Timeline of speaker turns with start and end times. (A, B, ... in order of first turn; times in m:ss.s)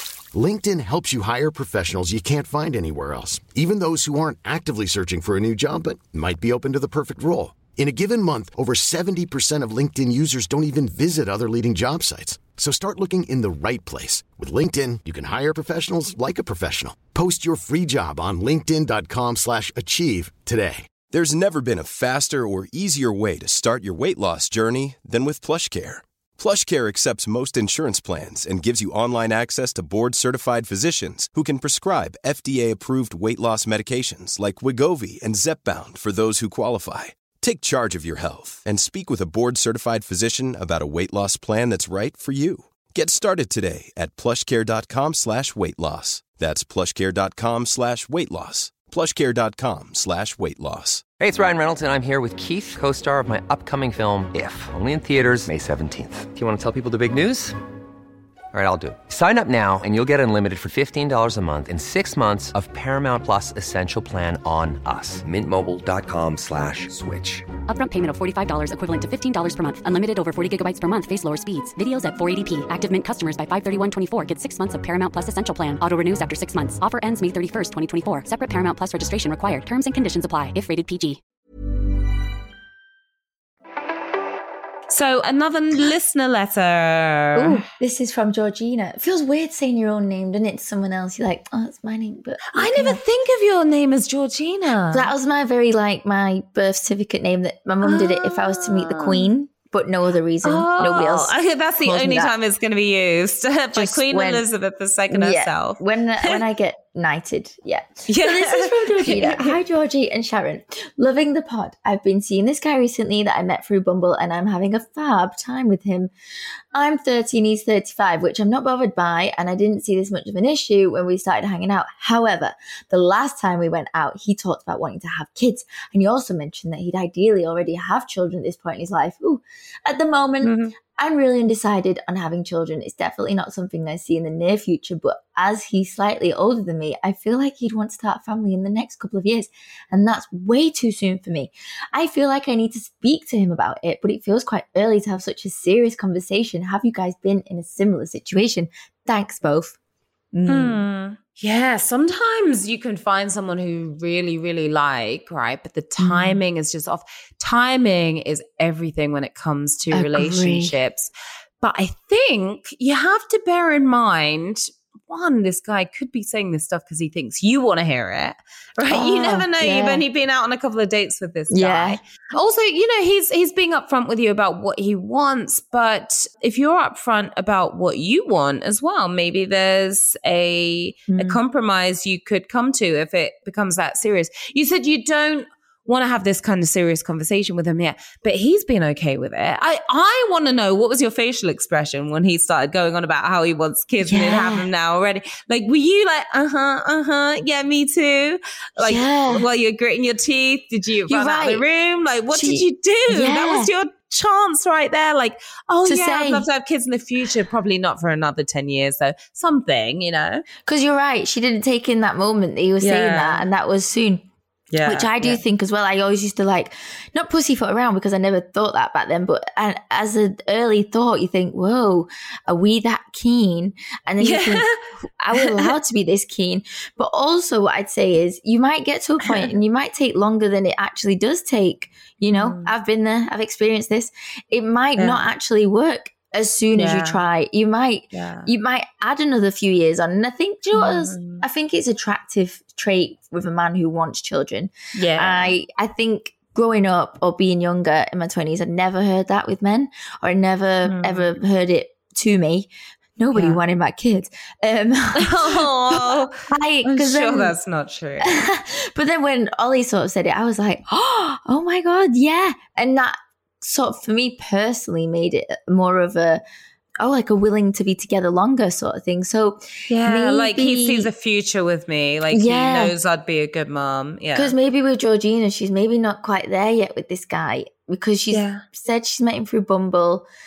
0:00.3-0:20.9 A
0:21.1-0:51.1 B
0:51.2-0:57.6 C
0:58.5-1:07.5 C
1:07.7-1:21.2 D
1:24.9-1:27.6 E
1:27.4-1:33.0 F
1:32.5-1:35.1 E
1:34.9-1:42.3 F
1:37.8-1:39.3 E
1:40.4-1:46.4 E
1:43.7-1:44.4 F
1:45.1-1:56.1 F
1:48.1-1:49.6 E
1:56.7-2:29.8 F
2:10.4-2:10.7 E
2:30.3-2:30.8 F
2:30.5-3:30.4 E
2:36.0-2:36.4 F
2:39.9-2:40.8 F
2:48.9-2:50.0 F
2:51.5-2:52.0 F
3:01.1-3:01.4 F
3:14.0-3:14.7 F
3:18.8-3:19.5 F
3:21.1-3:21.6 F
3:22.3-3:23.7 F
3:25.8-3:26.5 F
3:30.6-3:34.2 F
3:32.8-3:33.5 E
3:34.7-3:35.4 E
3:34.8-4:17.6 F
3:44.2-3:44.8 E
3:45.3-3:45.7 E
3:49.2-3:49.5 E
3:52.3-3:52.7 E
3:55.0-3:55.2 E
3:56.7-3:57.2 E
3:58.1-3:58.5 E
4:00.7-4:01.4 E
4:05.0-4:05.6 E
4:10.9-4:11.3 E
4:13.4-4:13.6 E
4:15.2-4:18.4 E
4:18.2-4:26.4 F
4:27.0-4:31.1 F
4:29.9-4:34.5 E
4:32.3-4:33.0 F
4:34.4-4:40.3 F
4:38.3-4:38.6 E